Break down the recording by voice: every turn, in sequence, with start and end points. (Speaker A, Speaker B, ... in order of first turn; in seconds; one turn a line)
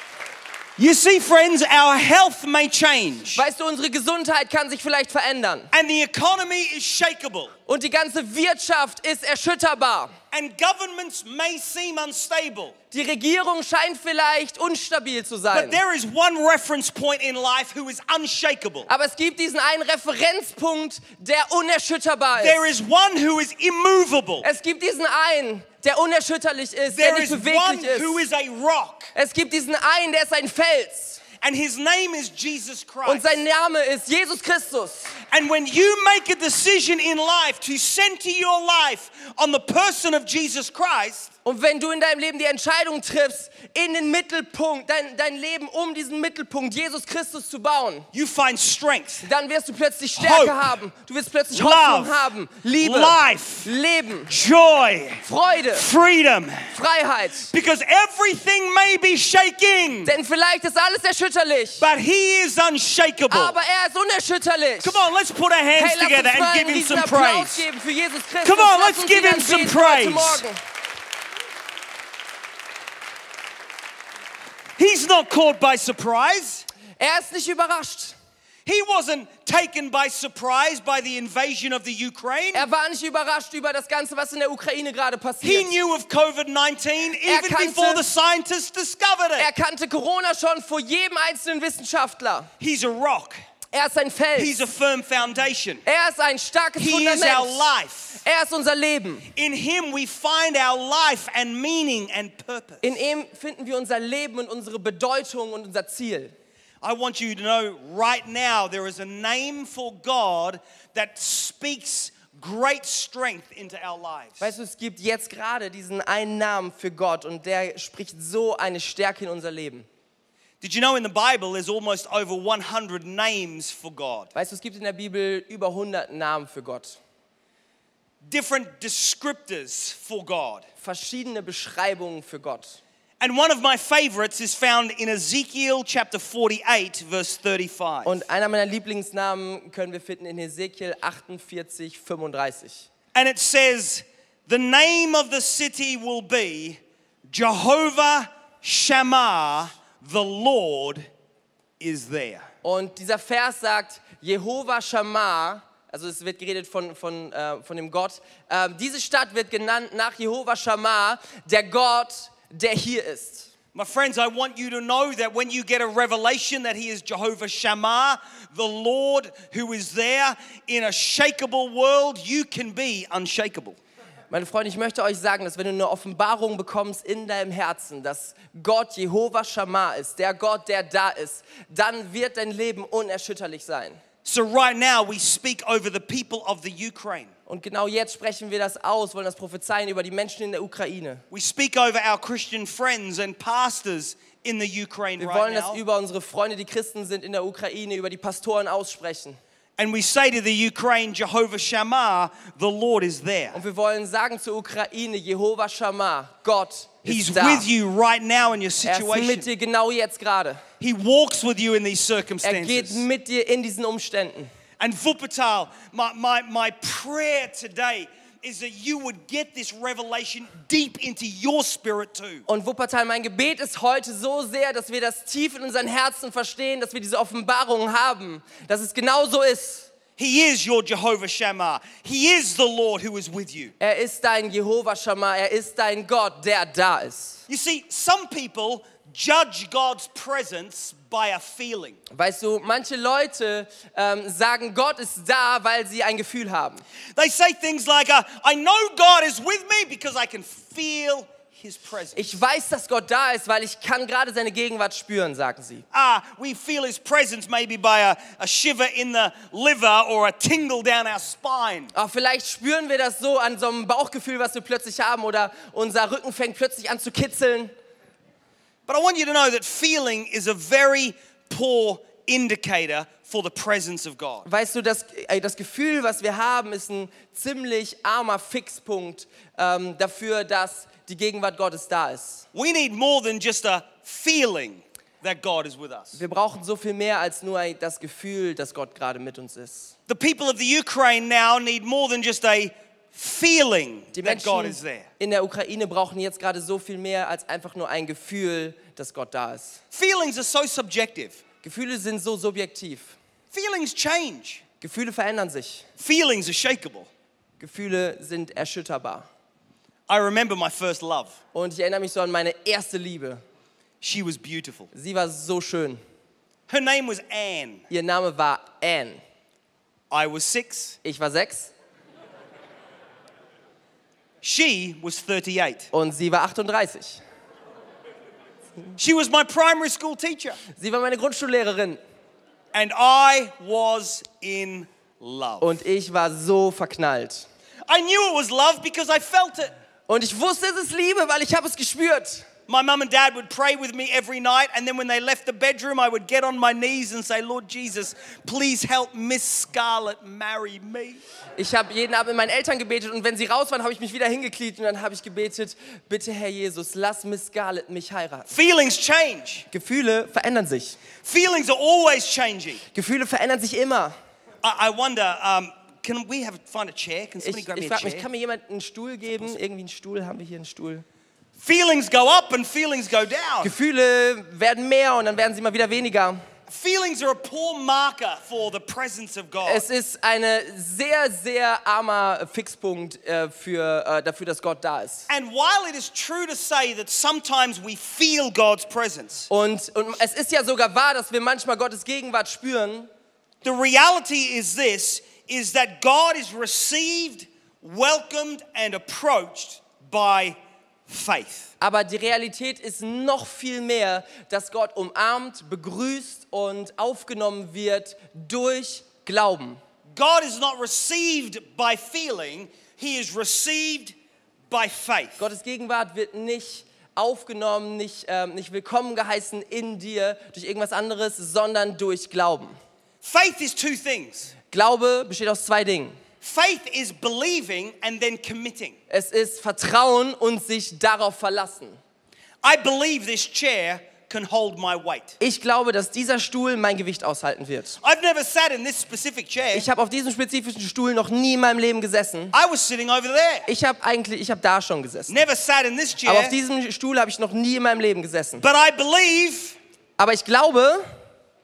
Speaker A: 0.8-3.4
Speaker B: 3.3-5.7
Speaker A: 5.7-7.5
Speaker B: 7.7-10.1
Speaker A: 10.3-12.7
Speaker B: 12.9-15.8
Speaker A: 15.5-18.9
Speaker B: 18.9-22.6
Speaker A: 22.4-24.4
Speaker B: 24.4-28.2
Speaker A: 26.9-29.1
Speaker B: 29.1-31.2
Speaker A: 31.4-33.4
Speaker B: 33.0-35.2
Speaker A: 35.3-41.3
Speaker B: 41.4-48.1
Speaker A: 48.1-49.3
Speaker B: 49.2-54.3
Speaker A: 50.2-50.7
Speaker A: 51.5-53.7
Speaker A: 54.3-56.7
Speaker B: 55.2-55.9
Speaker B: 56.7-57.5
Speaker A: 57.5-60.1
Speaker B: 60.0-61.9
Speaker A: 61.8-63.5
Speaker B: 63.3-65.0
Speaker A: 64.8-67.6
Speaker B: 65.8-70.6
Speaker A: 68.4-70.4
Speaker A: 74.8-76.7
Speaker B: 77.0-78.1
Speaker A: 78.7-82.7
Speaker B: 82.5-85.8
Speaker A: 85.4-89.5
Speaker B: 87.2-88.0
Speaker B: 89.4-92.5
Speaker A: 92.6-93.4
Speaker B: 93.7-94.5
Speaker A: 94.3-95.8
Speaker B: 95.8-99.3
Speaker A: 96.8-98.2
Speaker A: 99.3-102.9
Speaker B: 102.8-106.3
Speaker A: 106.8-114.5
Speaker B: 114.4-119.8
Speaker A: 120.6-124.3
Speaker B: 124.3-127.0
Speaker A: 128.2-130.6
Speaker B: 130.8-132.8
Speaker A: 133.2-138.2
Speaker B: 138.0-142.9
Speaker A: 143.1-151.1
Speaker A: 151.8-152.5
Speaker B: 152.6-163.5
Speaker A: 163.7-173.8
Speaker B: 174.3-184.0
Speaker A: 184.2-187.3
Speaker B: 187.5-191.2
Speaker A: 191.3-195.8
Speaker B: 195.2-199.4
Speaker A: 199.8-203.6
Speaker B: 203.5-207.7
Speaker A: 207.0-209.4
Speaker B: 208.8-210.6
Speaker A: 210.8-213.0
Speaker B: 212.4-214.5
Speaker A: 214.8-222.4
Speaker B: 222.5-229.9
Speaker A: 230.2-233.7
Speaker B: 233.8-237.4
Speaker A: 237.5-242.0
Speaker B: 242.1-246.8
Speaker A: 247.2-252.3
Speaker B: 252.1-255.8
Speaker A: 255.9-261.9
Speaker B: 261.9-267.7
Speaker A: 268.9-274.5
Speaker B: 274.4-282.4
Speaker A: 282.5-286.2
Speaker B: 286.1-289.9
Speaker A: 290.1-295.1
Speaker B: 294.1-299.8
Speaker A: 299.9-301.4
Speaker B: 301.6-303.1
Speaker A: 303.5-304.6
Speaker B: 304.8-305.8
Speaker A: 306.0-307.1
Speaker B: 307.6-309.3
Speaker A: 310.1-311.4
Speaker B: 311.5-313.4
Speaker A: 314.0-314.9
Speaker B: 314.9-316.0
Speaker A: 316.7-317.8
Speaker B: 317.9-319.2
Speaker A: 320.1-321.0
Speaker B: 321.0-321.7
Speaker A: 324.4-325.9
Speaker B: 325.9-327.2
Speaker A: 329.0-330.6
Speaker B: 330.7-332.0
Speaker A: 332.7-335.8
Speaker B: 335.6-337.4
Speaker A: 337.9-339.7
Speaker B: 340.1-342.4
Speaker A: 342.7-351.2
Speaker B: 351.6-358.5
Speaker A: 358.5-359.6
Speaker B: 359.7-361.0
Speaker A: 361.2-362.8
Speaker B: 362.9-364.1
Speaker A: 364.6-368.2
Speaker B: 367.4-371.0
Speaker A: 371.6-373.7
Speaker B: 373.6-376.4
Speaker A: 376.7-379.8
Speaker B: 379.6-385.3
Speaker A: 385.3-389.5
Speaker B: 389.5-393.1
Speaker A: 393.6-400.6
Speaker A: 401.1-401.7
Speaker B: 401.8-409.8
Speaker A: 410.1-414.1
Speaker A: 414.7-415.4
Speaker B: 415.4-422.8
Speaker A: 423.2-424.5
Speaker B: 424.7-426.2
Speaker A: 426.4-428.9
Speaker B: 429.1-432.0
Speaker A: 432.6-435.4
Speaker B: 435.4-438.0
Speaker A: 438.0-439.9
Speaker B: 439.7-442.5
Speaker A: 442.5-443.7
Speaker B: 443.7-445.3
Speaker A: 445.3-446.5
Speaker B: 446.2-448.6
Speaker A: 448.6-449.8
Speaker B: 450.2-451.0